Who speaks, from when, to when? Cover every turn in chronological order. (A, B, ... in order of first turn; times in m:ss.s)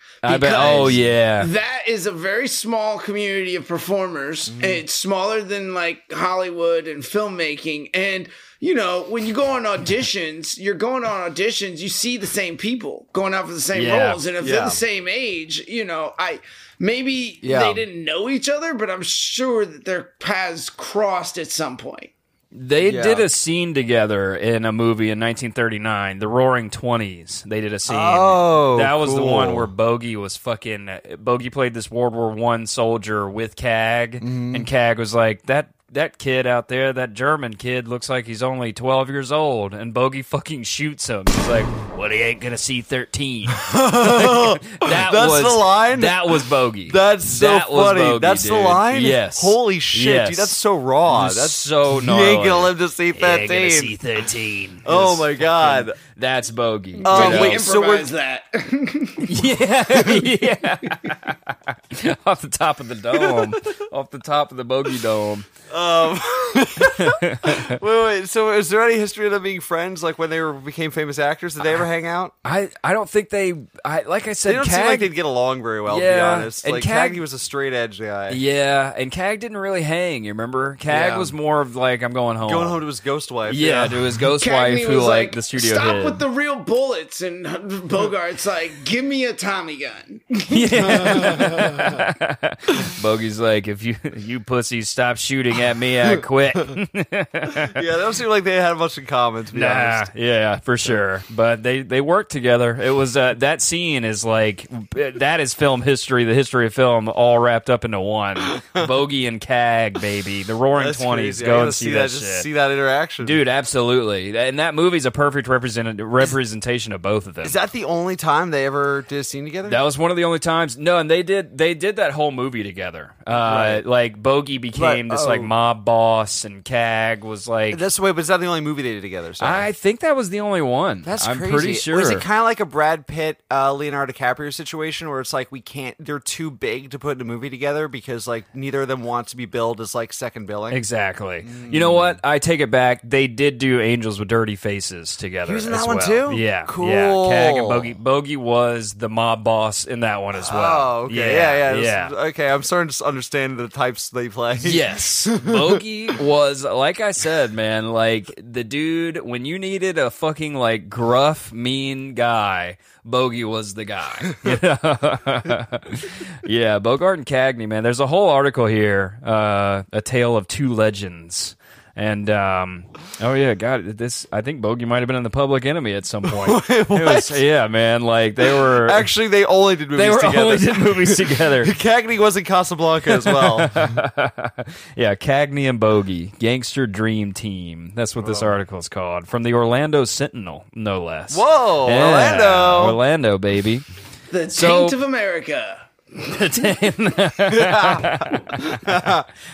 0:00.2-0:01.5 A
0:00.2-0:22.1 B
0:00.7-0:01.0 C
0:04.5-0:04.8 C
0:13.7-0:14.2 A
0:14.4-0:14.8 C
0:17.4-0:17.8 C
0:22.5-0:50.6 A
0:22.8-0:23.3 C
0:27.9-0:29.7 C
0:34.2-0:34.7 C
0:43.6-0:54.0 C
0:51.1-0:57.6 A
0:54.8-0:56.0 C
0:57.0-0:58.1 C
0:57.0-0:59.3 B
0:59.2-1:05.5 A
1:03.2-1:03.6 C
1:05.7-1:12.3 C
1:06.9-1:07.8 A
1:12.4-1:15.1 A
1:14.4-1:18.4 C
1:15.9-1:17.2 A
1:18.3-1:22.8 A
1:20.9-1:21.3 C
1:22.4-1:24.0 C
1:23.5-1:26.2 A
1:24.4-1:31.4 B
1:30.5-1:37.8 A
1:30.8-1:32.0 C
1:37.6-1:40.1 C
1:39.5-1:52.5 A
1:50.8-1:53.4 C
1:53.2-1:57.6 A
1:57.4-1:59.8 C
1:59.6-2:07.8 A
2:03.4-2:03.8 C
2:04.8-2:05.5 C
2:07.7-2:09.7 C
2:09.4-2:12.2 A
2:11.0-2:20.8 C
2:20.7-2:32.1 A
2:21.4-2:22.2 C
2:25.4-2:27.9 C
2:30.3-2:35.8 C
2:34.6-2:59.1 A
2:56.2-2:57.4 C
2:58.4-3:03.7 C
3:00.0-3:01.7 A
3:03.1-3:13.8 A
3:08.2-3:08.5 C
3:11.3-3:13.0 C
3:14.3-3:16.5 B
3:14.5-3:15.0 A
3:16.2-3:19.2 A
3:17.5-3:19.2 C